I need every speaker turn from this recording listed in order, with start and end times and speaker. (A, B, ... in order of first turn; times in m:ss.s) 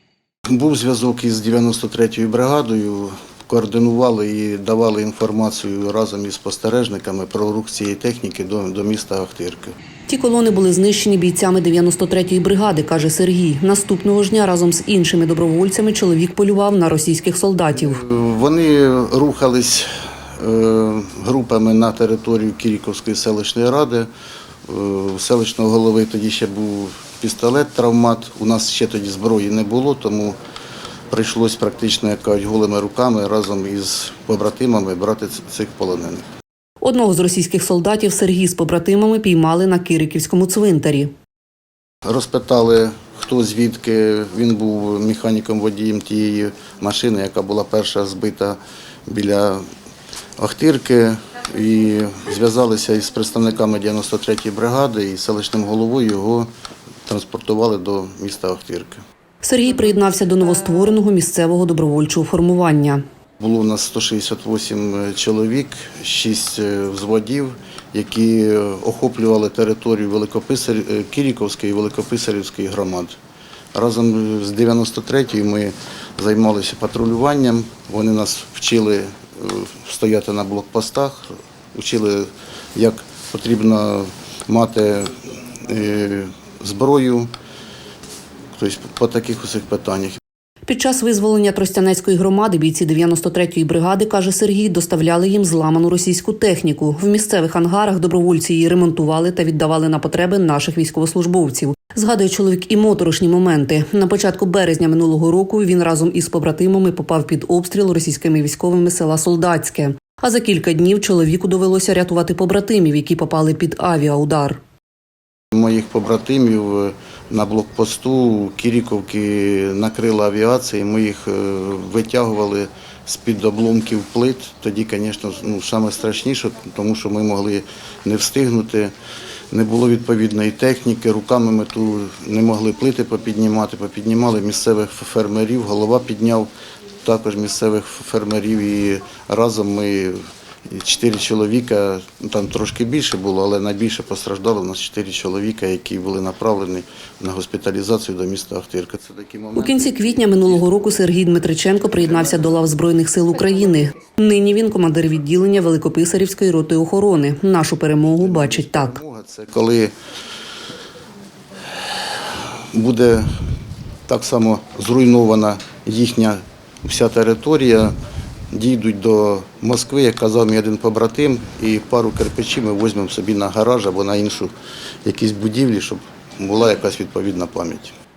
0:00.5-0:09.7 A
0:10.1-0:18.0 B
0:17.7-0:24.1 A
0:24.7-0:30.4 A
0:31.1-0:36.2 A
0:36.8-0:41.1 B
0:42.0-0:49.6 A
0:50.4-0:56.5 A
0:57.0-0:59.0 A
0:59.4-1:03.0 B
1:03.4-1:13.2 A
1:13.7-1:27.3 A
1:28.6-1:30.2 A
1:30.6-1:54.6 B
1:55.5-2:08.9 A
2:09.5-2:16.5 A
2:17.0-2:20.2 A
2:20.7-2:31.0 A
2:29.6-2:39.0 B
2:32.0-2:32.4 A
2:38.0-2:39.9 A
2:42.0-2:43.2 A
2:44.1-2:47.9 A
2:48.5-2:54.5 A
2:55.0-2:57.9 A